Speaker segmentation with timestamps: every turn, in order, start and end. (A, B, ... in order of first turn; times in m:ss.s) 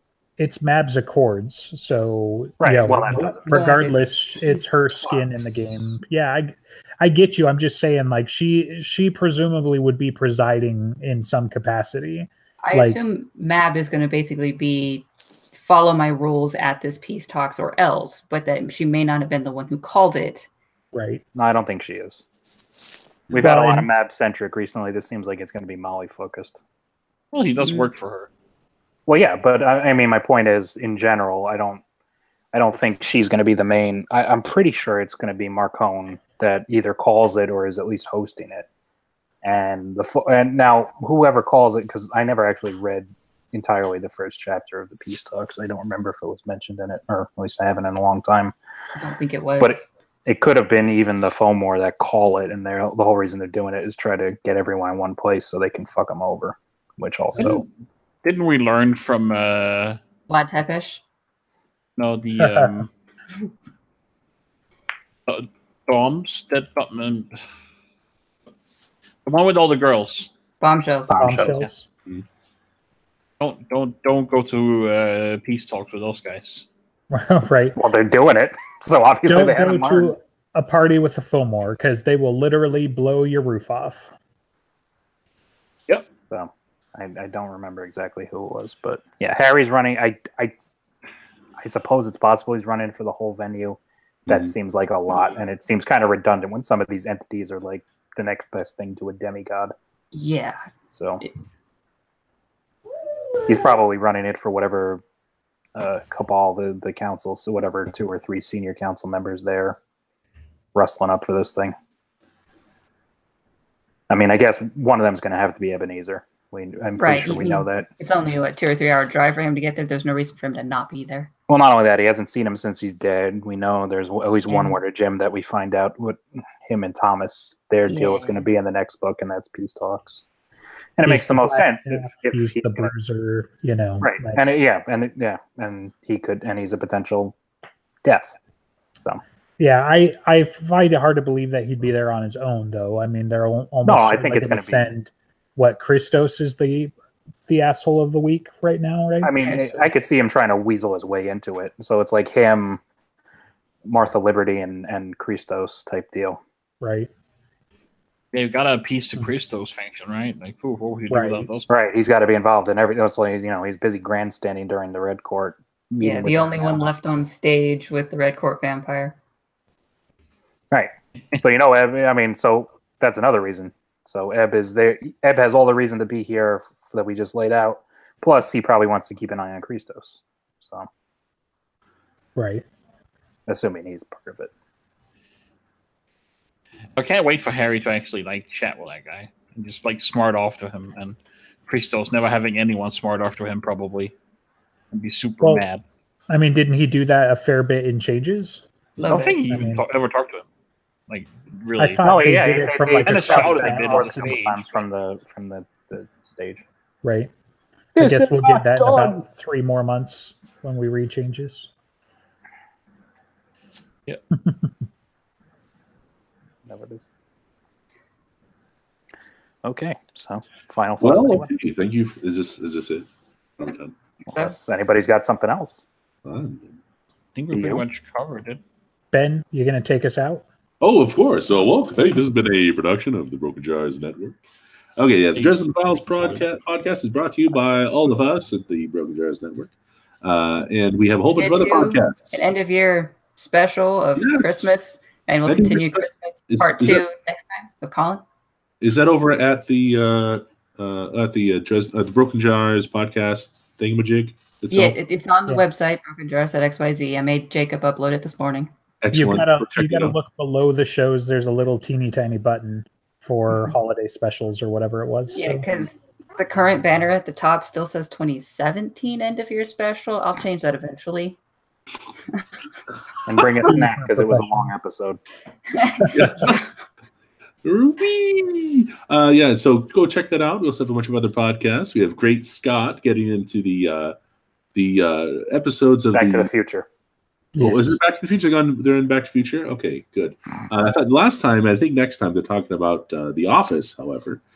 0:00.4-0:13.0 A
0:02.6-0:03.5 B
0:03.5-0:05.3 C
0:12.6-0:15.1 C
0:15.6-0:20.5 C
0:20.9-0:21.2 A
0:21.4-0:22.2 B
0:23.3-0:26.6 B
0:23.4-0:23.9 A
0:27.3-0:28.3 D
0:29.1-0:31.8 B
0:32.5-0:38.7 B
0:39.4-0:48.5 B
0:49.0-0:49.8 C
0:49.6-0:57.6 B
0:57.4-0:57.7 D
0:58.2-1:00.0 D
1:00.3-1:01.0 C
1:02.0-1:02.9 D
1:02.4-1:02.7 A
1:05.3-1:07.4 D
1:09.2-1:10.3 D
1:10.6-1:11.5 C
1:11.1-1:11.6 B
1:11.2-1:11.9 A
1:13.4-1:16.7 D
1:17.1-1:17.8 A
1:17.8-1:20.1 B
1:19.2-1:24.1 A
1:26.3-1:30.6 B
1:31.6-1:39.7 B
1:34.3-1:34.5 E
1:40.1-1:40.6 C
1:40.9-1:41.2 B
1:43.5-1:45.0 B
1:45.8-1:49.8 B
1:50.8-1:51.8 B
1:54.1-1:58.0 B
1:57.0-2:01.3 C
2:01.5-2:10.2 B
2:04.5-2:04.8 C
2:07.9-2:08.5 C
2:11.0-2:12.9 B
2:11.0-2:14.4 A
2:14.0-2:17.4 B
2:18.0-2:18.4 B
2:19.6-2:26.9 A
2:23.8-2:24.9 B
2:27.5-2:29.8 A
2:29.2-2:32.8 B
2:33.8-2:36.4 B
2:36.8-2:37.1 A
2:38.3-2:41.7 D
2:41.1-2:41.5 A
2:41.7-2:46.9 B
2:46.0-2:49.2 C
2:50.7-3:00.9 B
3:02.4-3:02.6 A
3:03.5-3:04.5 B
3:07.0-3:14.1 D
3:14.9-3:15.8 D
3:16.3-3:18.6 A
3:19.0-3:19.4 C
3:19.1-3:20.4 D
3:19.4-3:19.8 A
3:21.1-3:22.1 D
3:21.8-3:24.4 A
3:22.0-3:26.6 B
3:23.0-3:24.8 D
3:27.0-3:27.3 A
3:28.0-3:29.2 B
3:28.0-3:31.7 A
3:34.4-3:34.7 A
3:36.7-3:37.1 B
3:39.6-3:41.5 B
3:41.0-3:43.1 E
3:43.6-3:43.9 E
3:44.3-3:44.5 C
3:44.3-3:45.8 B
3:46.2-3:46.8 E
3:47.4-3:48.6 D
3:47.5-3:47.8 B
3:49.1-3:50.4 A
3:50.8-3:54.4 E
3:55.0-4:02.5 E
3:55.4-3:56.4 D
4:01.4-4:08.2 C
4:04.2-4:04.7 E
4:05.5-4:07.0 E
4:08.8-4:15.0 E
4:14.7-4:18.7 C
4:19.0-4:20.2 E
4:19.1-4:25.7 A
4:25.3-4:31.4 C
4:33.3-4:35.2 B
4:33.6-4:34.7 A
4:35.7-4:36.6 C
4:36.1-4:36.7 E
4:37.6-4:44.2 E
4:44.7-4:46.5 E
4:46.1-4:46.9 B
4:47.6-4:48.0 A
4:47.6-4:54.4 E